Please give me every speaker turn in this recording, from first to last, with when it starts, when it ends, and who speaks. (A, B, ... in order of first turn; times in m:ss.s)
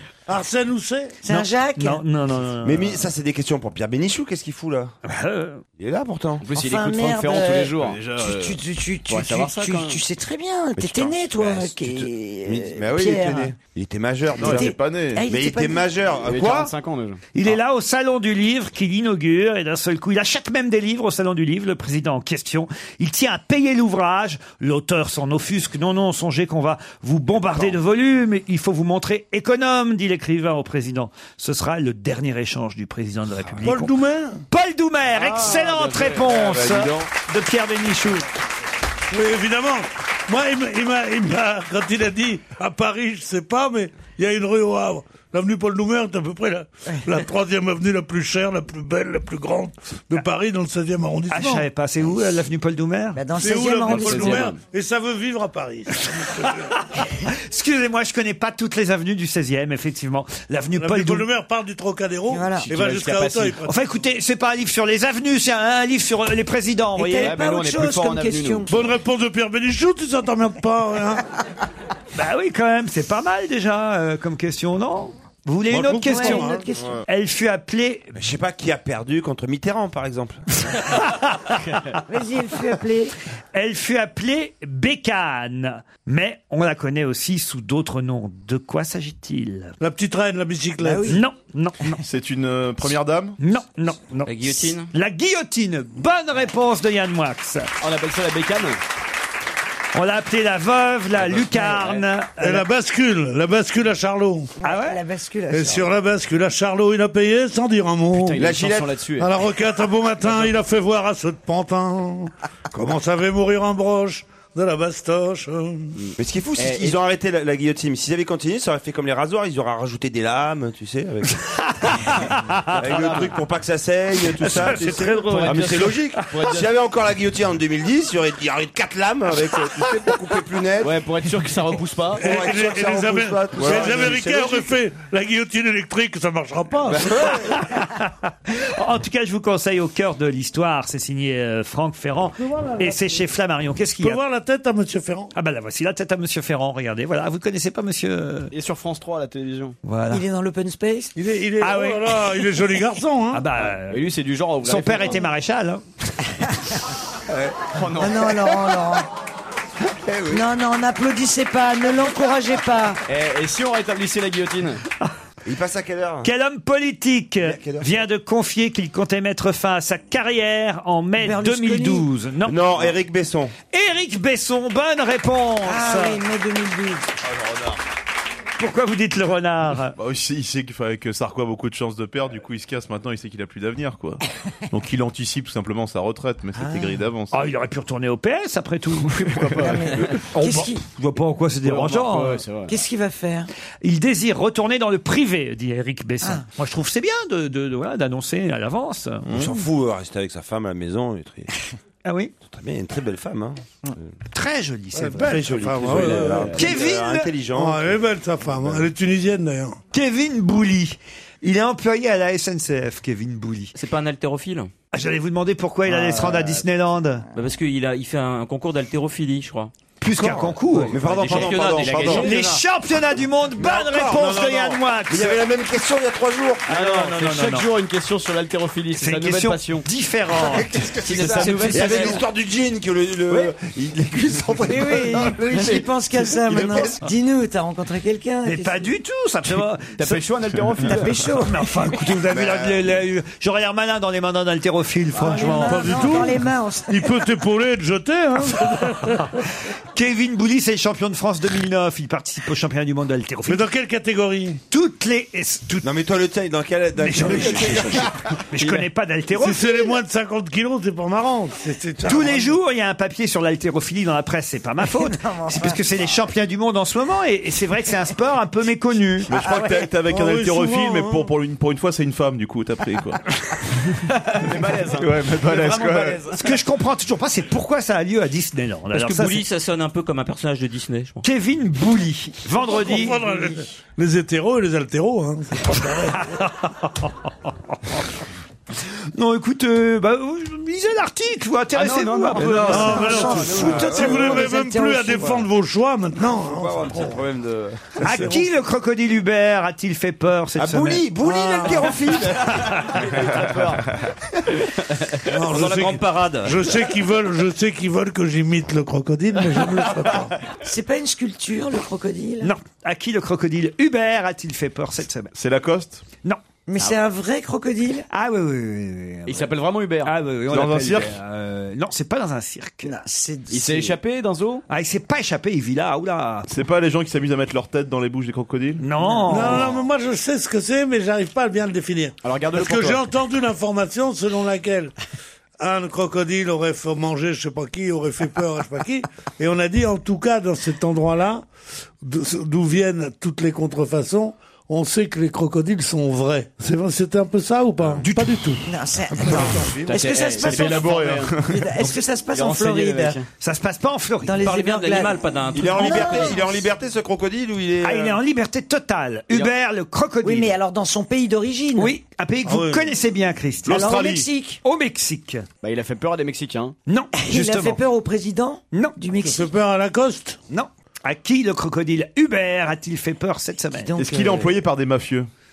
0:00.3-0:01.2 A
0:01.2-0:02.0 B
0:01.3-0:03.0 C
0:02.6-0:04.9 D
0:05.0-0:05.6 C
0:05.8-0:06.5 D
0:06.4-0:08.1 E
0:06.5-0:13.5 B
0:07.8-0:08.6 F
0:09.1-0:10.0 E
0:10.8-0:14.7 D
0:14.4-0:15.3 F
0:14.4-0:15.9 B
0:15.2-0:16.7 D
0:16.2-0:17.2 E
0:17.3-0:33.9 C
0:33.6-0:34.4 A
0:34.5-0:38.2 C
0:35.2-0:37.1 E
0:39.1-0:51.7 A
0:46.9-0:47.1 B
0:51.3-0:53.2 C
0:53.1-0:54.5 B
0:53.3-0:56.7 A
0:53.9-0:54.6 E
0:53.9-0:54.3 C
0:56.4-1:01.2 C
1:00.8-1:03.8 A
1:02.3-1:02.7 B
1:02.6-1:03.6 E
1:03.6-1:07.4 C
1:07.0-1:08.9 B
1:07.2-1:08.7 E
1:08.7-1:11.2 A
1:12.1-1:16.5 C
1:15.7-1:16.7 A
1:16.0-1:16.9 B
1:17.0-1:18.1 C
1:18.1-1:20.5 D
1:20.8-1:22.0 C
1:22.0-1:23.2 B
1:23.5-1:29.7 C
1:29.8-1:31.2 A
1:30.8-1:31.2 B
1:31.1-1:32.0 C
1:32.0-1:33.4 F
1:33.4-1:37.7 C
1:34.2-1:34.9 G
1:37.8-1:38.8 E
1:39.9-1:42.6 C
1:41.2-1:42.0 E
1:42.4-1:44.5 A
1:44.6-1:45.9 B
1:44.6-1:45.0 C
1:45.5-1:48.5 A
1:48.1-1:49.3 E
1:48.4-1:48.9 D
1:49.2-1:56.0 A
1:56.0-1:57.0 E
1:56.2-2:01.9 D
2:01.8-2:02.6 C
2:02.7-2:11.0 D
2:02.8-2:03.3 E
2:04.4-2:06.0 C
2:05.2-2:06.7 E
2:10.8-2:12.2 E
2:12.2-2:17.2 A
2:12.2-2:14.7 D
2:13.6-2:14.0 F
2:17.0-2:17.5 D
2:17.2-2:24.2 C
2:22.4-2:23.2 A
2:24.0-2:25.3 A
2:25.3-2:28.5 C
2:28.5-2:29.8 E
2:29.8-2:30.2 C
2:30.1-2:31.1 B
2:31.2-2:33.5 A
2:31.6-2:32.4 C
2:33.3-2:34.0 C
2:33.6-2:35.3 E
2:34.6-2:35.8 C
2:37.3-2:37.7 D
2:37.7-2:38.5 E
2:37.9-2:39.1 B
2:40.0-2:40.4 D
2:40.3-2:43.0 B
2:43.1-2:44.8 E
2:45.4-2:46.3 D
2:46.2-2:52.6 C
2:47.4-2:48.0 D
2:51.2-2:52.1 B
2:52.4-2:53.5 D
2:53.7-2:56.2 C
2:55.6-2:57.0 B
2:57.3-2:57.8 F
2:58.6-3:00.0 C
3:00.0-3:07.4 F
3:06.6-3:07.0 B
3:07.3-3:12.4 C
3:09.4-3:10.0 F
3:09.5-3:10.1 E
3:09.6-3:10.8 B
3:11.6-3:12.7 E
3:12.7-3:13.5 B
3:13.8-3:19.2 C
3:19.3-3:21.5 D
3:22.0-3:22.3 C
3:22.4-3:24.1 D
3:24.3-3:25.4 C
3:24.9-3:26.5 A
3:25.2-3:28.0 D
3:26.5-3:27.3 C
3:27.5-3:29.8 A
3:28.6-3:28.9 D
3:29.9-3:33.7 C
3:33.7-3:34.7 G
3:34.9-3:37.2 C
3:35.9-3:36.6 E
3:37.3-3:39.7 G
3:40.0-3:41.5 C
3:40.7-3:42.4 E
3:40.8-3:42.6 G
3:40.9-3:42.3 D
3:41.3-3:42.6 F
3:42.0-3:45.4 C
3:43.5-3:46.7 D
3:46.7-3:47.7 C
3:46.7-3:49.8 E
3:49.0-3:50.7 C
3:50.4-3:55.7 D
3:50.8-3:52.2 E
3:51.0-3:52.1 G
3:54.6-3:58.9 B
3:55.2-3:55.8 E
3:56.5-3:57.0 D
3:58.4-4:00.0 C
4:00.0-4:01.2 E
4:00.9-4:02.0 B
4:01.2-4:06.0 C
4:02.3-4:02.9 D
4:05.1-4:07.2 B
4:05.2-4:05.7 E
4:05.6-4:09.4 A
4:09.9-4:13.6 C
4:13.4-4:14.6 A
4:14.7-4:15.9 C
4:15.8-4:18.1 D
4:17.0-4:19.9 C
4:17.4-4:18.0 E
4:18.5-4:18.9 E
4:19.3-4:22.6 A
4:22.0-4:29.3 C
4:24.8-4:25.8 B
4:29.3-4:33.2 F
4:29.4-4:29.9 B
4:30.0-4:31.3 A
4:34.0-4:36.5 E
4:34.9-4:36.2 F
4:36.3-4:39.4 C
4:39.0-4:41.2 G
4:41.2-4:43.2 C
4:42.5-4:46.4 A
4:46.1-4:47.3 C
4:49.1-4:53.2 C
4:51.7-4:53.9 E
4:52.2-4:55.5 B
4:52.6-4:57.2 A
4:53.8-4:54.5 D
4:56.4-4:57.2 D
4:57.0-4:57.9 E
4:58.0-4:58.3 A
4:58.0-5:02.1 C
5:00.6-5:02.9 D
5:02.4-5:04.0 E
5:05.2-5:10.3 A
5:05.5-5:06.6 G
5:10.6-5:12.5 B
5:12.4-5:15.3 C
5:15.3-5:16.0 F
5:16.7-5:18.0 B
5:18.1-5:22.9 C
5:19.3-5:20.1 E
5:20.5-5:21.2 F
5:22.8-5:24.0 B
5:23.5-5:24.6 E
5:24.7-5:26.5 C
5:26.5-5:28.8 F
5:28.8-5:29.7 C
5:29.0-5:29.6 B
5:29.3-5:34.9 A
5:32.2-5:33.0 E
5:35.6-5:41.4 A
5:42.0-5:48.7 A
5:48.0-5:48.4 C
5:48.6-5:53.2 B
5:49.2-5:51.7 F
5:49.3-5:49.8 A
5:49.9-5:53.3 E
5:53.4-5:54.4 C
5:54.2-5:56.5 B
5:54.3-5:56.3 G
5:55.5-5:58.2 D
5:57.8-6:00.5 C
6:00.2-6:01.9 B
6:01.8-6:03.9 C
6:02.4-6:02.9 A
6:03.6-6:04.3 F
6:03.6-6:04.6 B
6:04.6-6:05.4 C
6:05.6-6:06.8 E
6:06.9-6:07.8 C
6:07.1-6:09.5 B
6:08.7-6:09.0 C
6:09.2-6:10.4 A
6:10.5-6:13.9 C
6:13.7-6:14.5 B
6:14.0-6:15.3 F